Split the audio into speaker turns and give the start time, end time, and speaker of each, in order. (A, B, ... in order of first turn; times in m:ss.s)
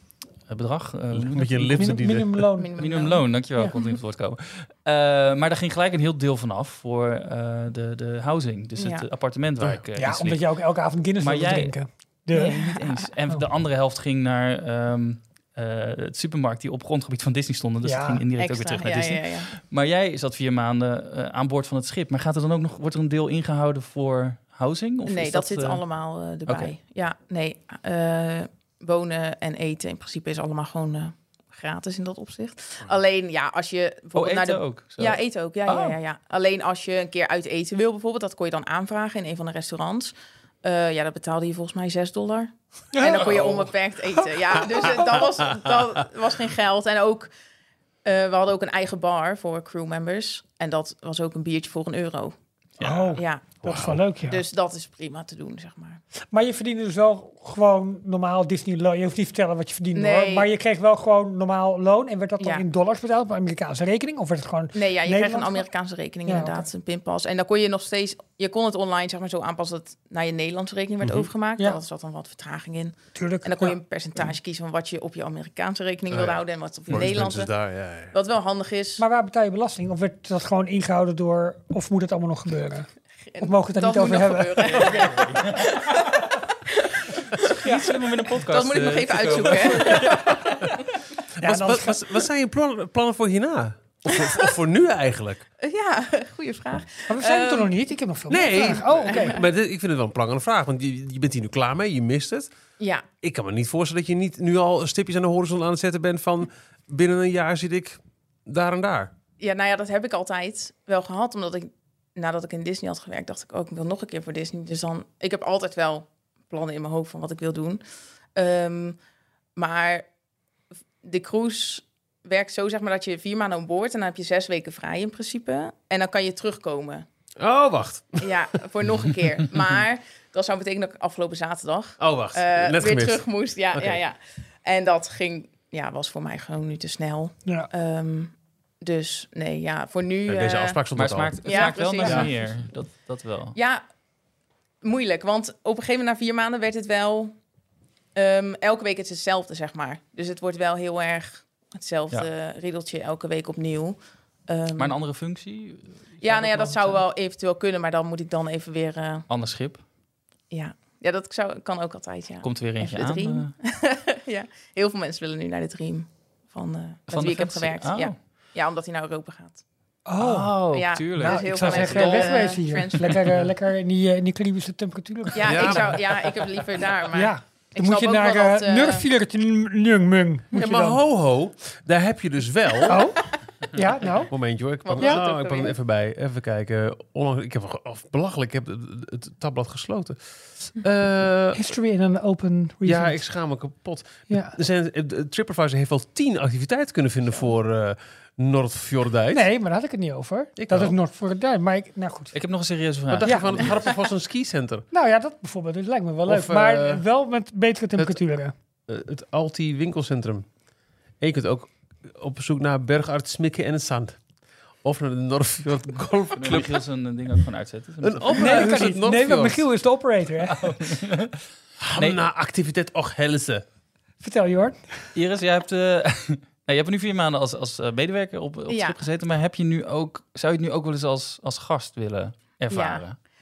0:00.5-0:02.0 A
0:01.1-0:02.5 B
0:01.8-0:02.8 C
0:02.6-0:03.8 D
0:02.8-0:10.4 A
0:08.8-0:09.1 D
0:10.0-0:12.8 C
0:11.2-0:11.7 A
0:12.4-0:25.8 A
0:12.4-0:12.8 D
0:17.8-0:18.2 C
0:18.4-0:19.5 D
0:25.0-0:47.3 D
0:26.5-0:26.7 A
0:34.2-0:36.0 A
0:42.9-0:43.3 C
0:43.2-0:43.7 B
0:48.0-0:52.4 D
0:52.8-0:53.1 A
0:52.8-0:54.4 C
0:53.1-0:53.5 D
0:53.6-0:54.0 B
0:54.2-0:56.0 D
0:56.3-1:05.7 C
0:59.9-1:00.5 D
1:04.7-1:17.5 D
1:06.3-1:06.7 C
1:11.0-1:11.3 B
1:13.2-1:13.8 C
1:16.1-1:18.1 B
1:18.1-1:19.0 D
1:19.0-1:22.9 C
1:23.3-1:27.7 D
1:23.4-1:25.1 C
1:24.8-1:25.8 A
1:27.4-1:30.4 A
1:28.4-1:30.7 D
1:29.8-1:30.3 C
1:31.4-1:32.2 C
1:31.4-1:35.4 B
1:34.1-1:34.4 D
1:35.6-1:37.7 D
1:37.1-1:39.4 C
1:38.3-1:42.5 B
1:39.1-1:39.4 D
1:42.8-1:43.0 D
1:43.2-1:49.1 B
1:49.4-1:57.8 D
1:58.4-1:59.0 D
1:59.6-2:00.0 D
2:01.0-2:07.1 D
2:07.4-2:08.4 B
2:08.2-2:20.8 D
2:12.0-2:14.0 B
2:20.3-2:22.3 B
2:20.9-2:23.6 A
2:21.4-2:22.4 D
2:23.6-2:23.8 D
2:24.8-2:27.3 D
2:28.2-2:35.0 D
2:34.8-2:37.0 A
2:36.2-2:39.3 D
2:39.3-2:39.8 A
2:40.5-2:49.6 D
2:42.4-2:43.5 A
2:47.1-2:48.2 A
2:50.1-2:50.6 C
2:50.2-2:53.1 A
2:50.7-2:53.2 D
2:51.2-2:56.0 C
2:55.4-2:59.0 D
2:55.4-2:56.0 B
2:57.1-3:01.0 C
3:00.5-3:03.1 B
3:02.8-3:04.3 C
3:04.3-3:11.6 B
3:04.8-3:05.8 D
3:05.0-3:05.2 C
3:11.5-3:13.2 C
3:12.8-3:19.5 B
3:14.3-3:14.6 C
3:19.3-3:22.4 C
3:20.6-3:21.0 B
3:22.3-3:23.7 A
3:23.1-3:24.9 B
3:23.2-3:23.8 C
3:24.9-3:28.5 C
3:26.3-3:27.0 B
3:28.9-3:30.5 B
3:31.2-3:34.2 B
3:34.8-3:36.8 B
3:36.4-3:38.8 A
3:38.0-3:39.7 B
3:38.3-3:40.7 C
3:40.5-3:41.4 A
3:41.8-3:43.6 B
3:44.2-3:44.8 C
3:45.2-3:53.2 A
3:48.7-3:49.0 D
3:52.7-3:53.0 D